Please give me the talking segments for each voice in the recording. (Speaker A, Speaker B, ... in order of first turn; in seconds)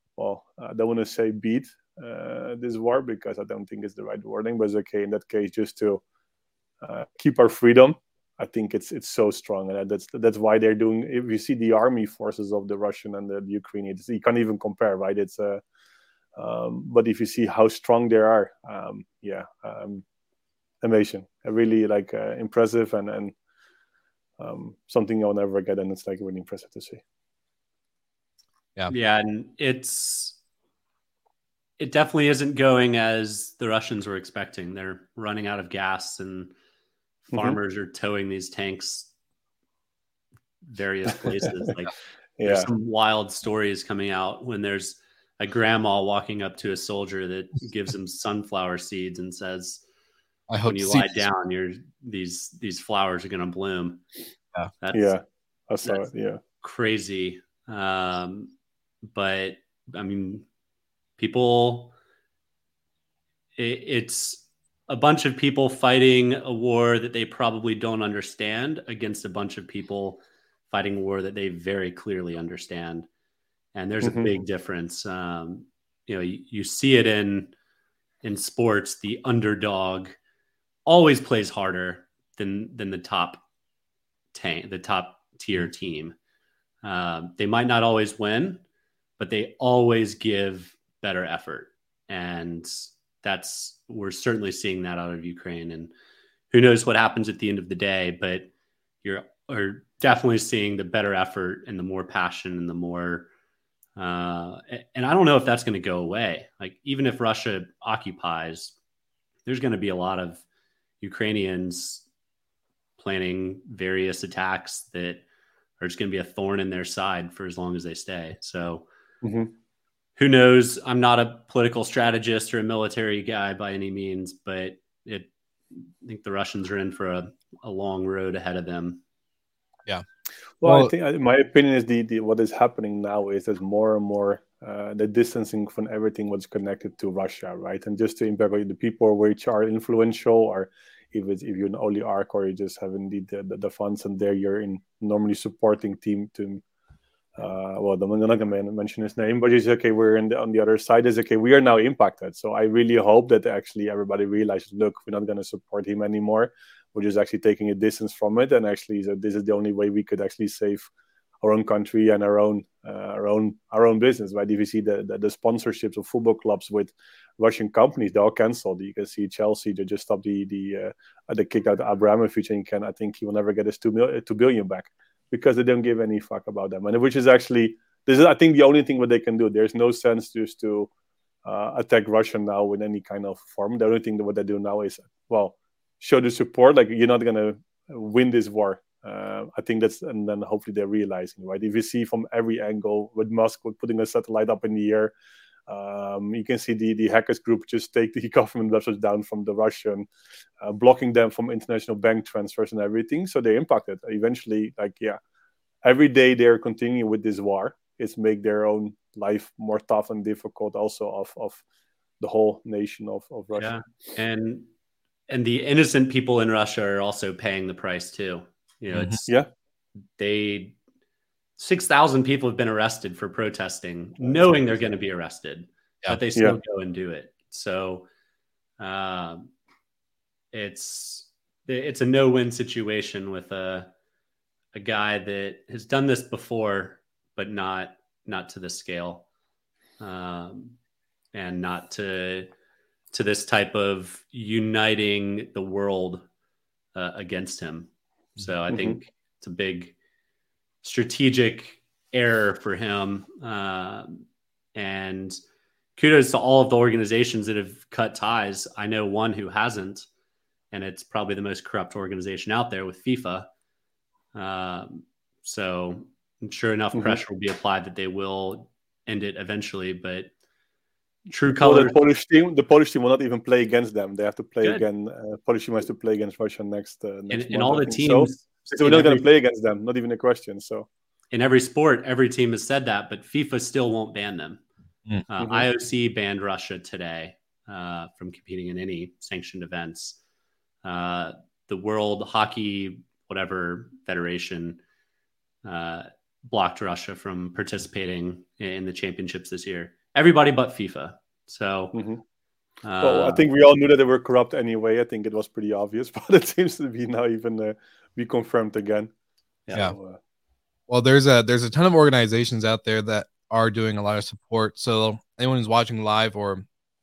Speaker A: 0.2-6.0, 6.8-15.6, 16.4-20.0, 20.8-23.4, 24.4-27.0, 37.3-37.6, 41.2-41.7, 42.4-42.7, 54.9-56.4, 74.0-74.3, 119.2-119.5, 130.6-146.6, 147.4-160.9, 161.4-180.9, 181.4-195.1, 195.7-200.1, 200.6-205.2, 205.8-211.6, 212.2-213.8, 248.7-249.0, 266.9-267.2, 271.5-280.9, 285.4-285.7, 301.9-302.2, 303.0-309.1, 309.7-310.2
Speaker B: 28.9-30.4, 31.8-36.5, 37.3-39.1, 40.6-41.9, 42.4-49.8, 50.7-54.0, 54.8-55.1, 56.6-58.5, 59.0-60.5, 61.2-61.9, 63.6-73.1, 73.7-77.5, 78.2-80.2, 80.9-83.4, 84.3-86.2, 86.8-88.6, 89.2-95.9, 96.5-98.5, 99.0-103.3, 104.0-108.8, 109.5-110.4, 111.0-112.1, 113.0-115.2, 115.8-118.9, 120.2-129.0, 213.6-214.7, 215.3-219.3, 220.2-220.8, 221.6-228.1, 228.8-229.5, 230.5-233.9, 234.7-239.3, 240.0-240.8, 241.3-242.5, 243.1-246.3, 246.9-249.9, 250.8-255.4, 256.0-260.1, 260.7-263.5, 264.3-270.3, 271.3-272.0, 277.3-279.2, 281.3-284.6, 285.3-290.2, 290.8-294.8, 295.6-302.0, 302.8-303.4, 309.7-309.9
Speaker C: 50.5-51.3, 130.6-130.9, 218.9-219.2, 310.9-316.7